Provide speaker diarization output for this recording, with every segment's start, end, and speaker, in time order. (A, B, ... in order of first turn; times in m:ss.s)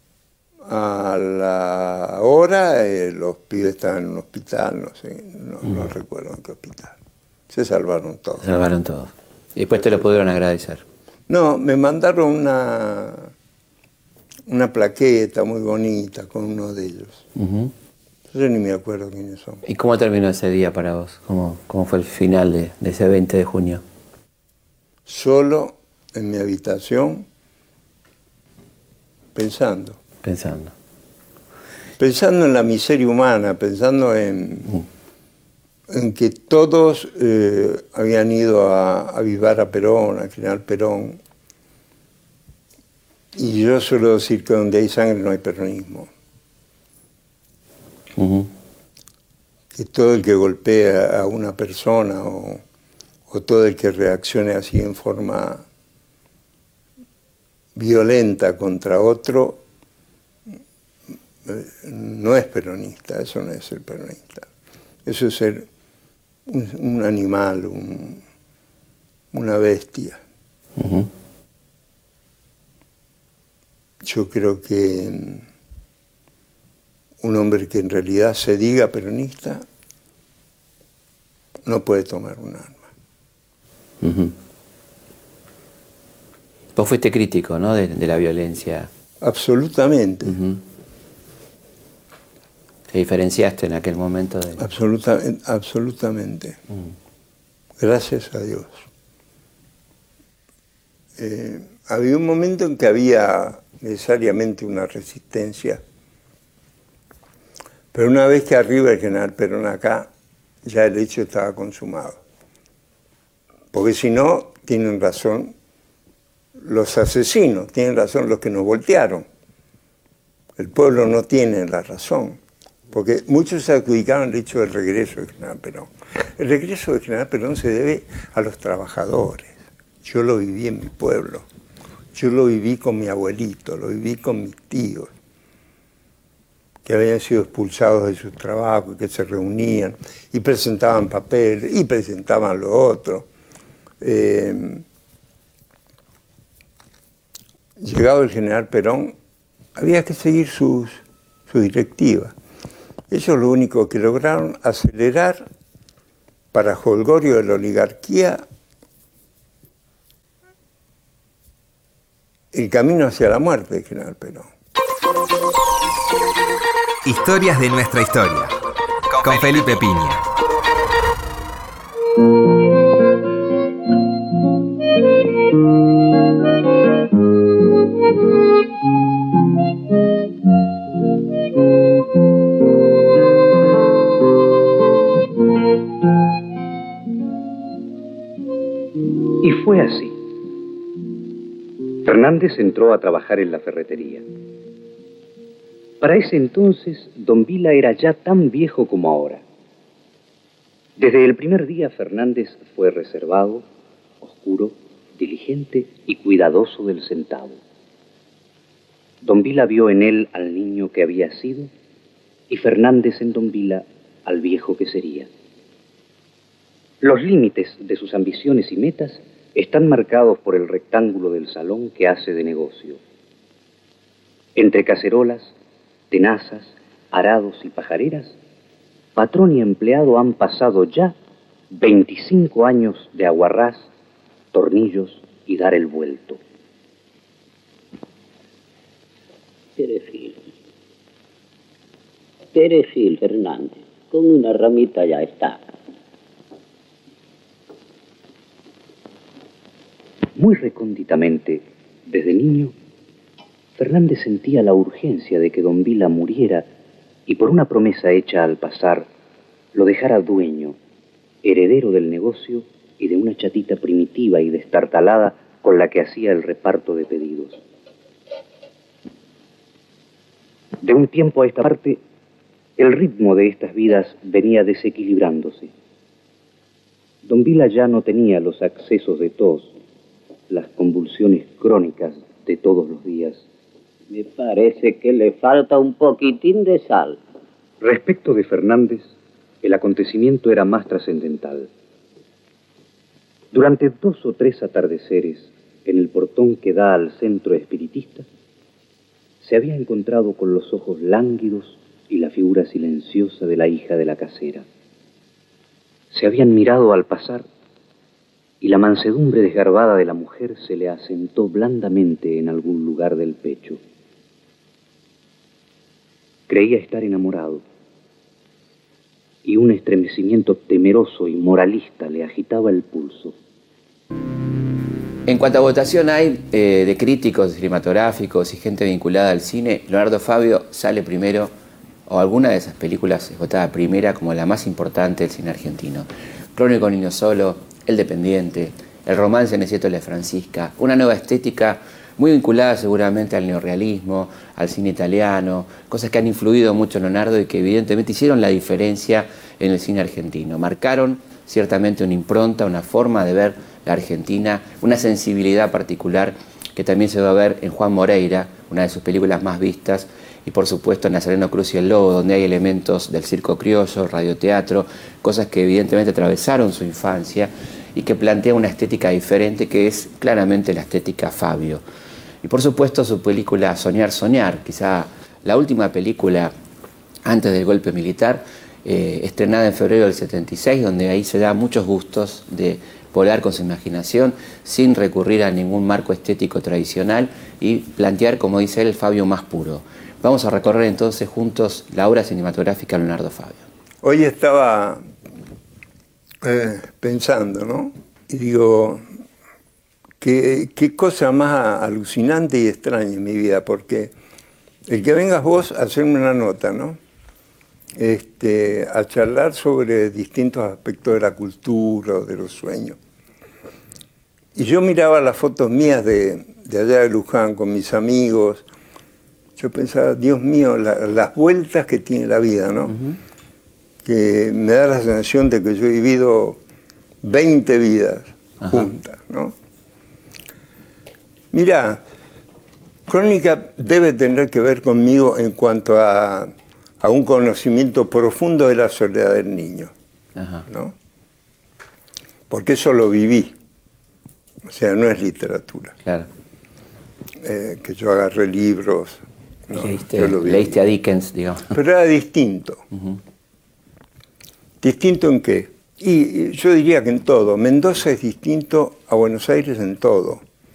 0:00.6-0:07.0 A
0:07.5-0:08.5 A
0:08.4-0:10.8 B
0:11.3-0:13.3 A
0:14.5-0:17.2 A
0:17.4-0:17.7 B
0:18.3-0:19.6 A
0:19.6-0:23.8 B
0:25.0-0:27.2 A
0:29.3-0:30.0 A
0:30.2-0:30.7 B
0:32.0-0:34.7 A
0:35.9-0:41.2 A
0:43.3-0:46.1 A
0:48.2-0:48.5 B
0:49.7-0:52.6 A
0:53.3-0:55.6 A
0:57.7-0:59.6 A
1:01.4-1:04.5 A
1:05.0-1:05.7 A
1:06.4-1:08.2 A
1:09.3-1:10.2 A
1:10.8-1:11.1 B
1:14.0-1:15.4 A
1:17.2-1:19.6 A
1:21.6-1:22.9 A
1:24.0-1:24.3 B
1:26.7-1:28.9 B
1:29.2-1:30.4 A
1:30.2-1:30.6 B
1:32.9-1:34.7 B
1:34.6-1:36.6 A
1:37.8-1:38.9 A
1:41.2-1:45.8 A
1:47.9-1:50.1 A
1:50.6-1:52.2 A
1:53.7-1:55.5 A
1:56.6-1:59.2 A
2:00.6-2:11.4 A
2:12.1-2:15.1 A
2:16.8-2:23.3 A
2:24.0-2:24.8 A
2:27.8-2:29.1 A
2:29.7-2:32.3 A
2:33.1-2:35.4 A
2:36.5-2:38.4 A
2:42.5-2:44.5 A
2:47.0-2:48.5 C
2:49.1-2:50.2 C
3:09.4-3:10.2 D
3:12.0-3:14.2 D
3:16.0-3:19.4 D
3:21.0-3:23.6 D
3:24.2-3:27.6 D
3:29.2-3:31.7 D
3:32.5-3:35.3 D
3:37.0-3:43.0 D
3:44.6-3:45.5 D
3:46.1-3:48.4 D
3:49.2-3:51.1 D
3:51.7-3:53.8 D
3:54.5-3:56.4 D
3:59.8-4:00.4 E
4:02.5-4:05.7 E
4:10.4-4:12.7 D
4:13.8-4:16.7 D
4:17.3-4:19.0 D
4:19.7-4:20.8 D
4:21.4-4:27.6 D
4:30.8-4:32.0 D
4:32.8-4:35.7 D
4:37.2-4:39.7 D
4:40.5-4:43.4 D
4:44.1-4:47.2 E
4:47.8-4:49.1 D
4:49.6-4:51.7 D
4:53.5-4:58.2 D
4:59.4-5:04.6 D
5:06.1-5:07.4 D
5:08.6-5:13.8 D
5:16.5-5:17.6 D
5:19.4-5:23.3 D
5:25.3-5:31.5 B
5:32.1-6:11.8 B
6:12.4-6:16.5 B
6:17.2-6:33.6 B
6:34.0-6:35.0 A
6:36.4-6:39.0 A
6:40.2-6:44.1 A
6:44.8-6:47.0 A
6:48.0-6:53.0 A
6:54.5-6:58.6 A
6:59.6-7:03.0 A
7:04.0-7:06.6 A
7:07.2-7:09.5 A
7:11.5-7:12.0 A
7:13.1-7:19.9 A
7:20.4-7:20.7 B
7:20.7-7:20.9 A
7:22.5-7:23.5 A
7:24.6-7:26.0 A
7:27.4-7:30.8 A
7:29.7-7:31.7 B
7:31.7-7:32.8 A
7:34.8-7:40.4 A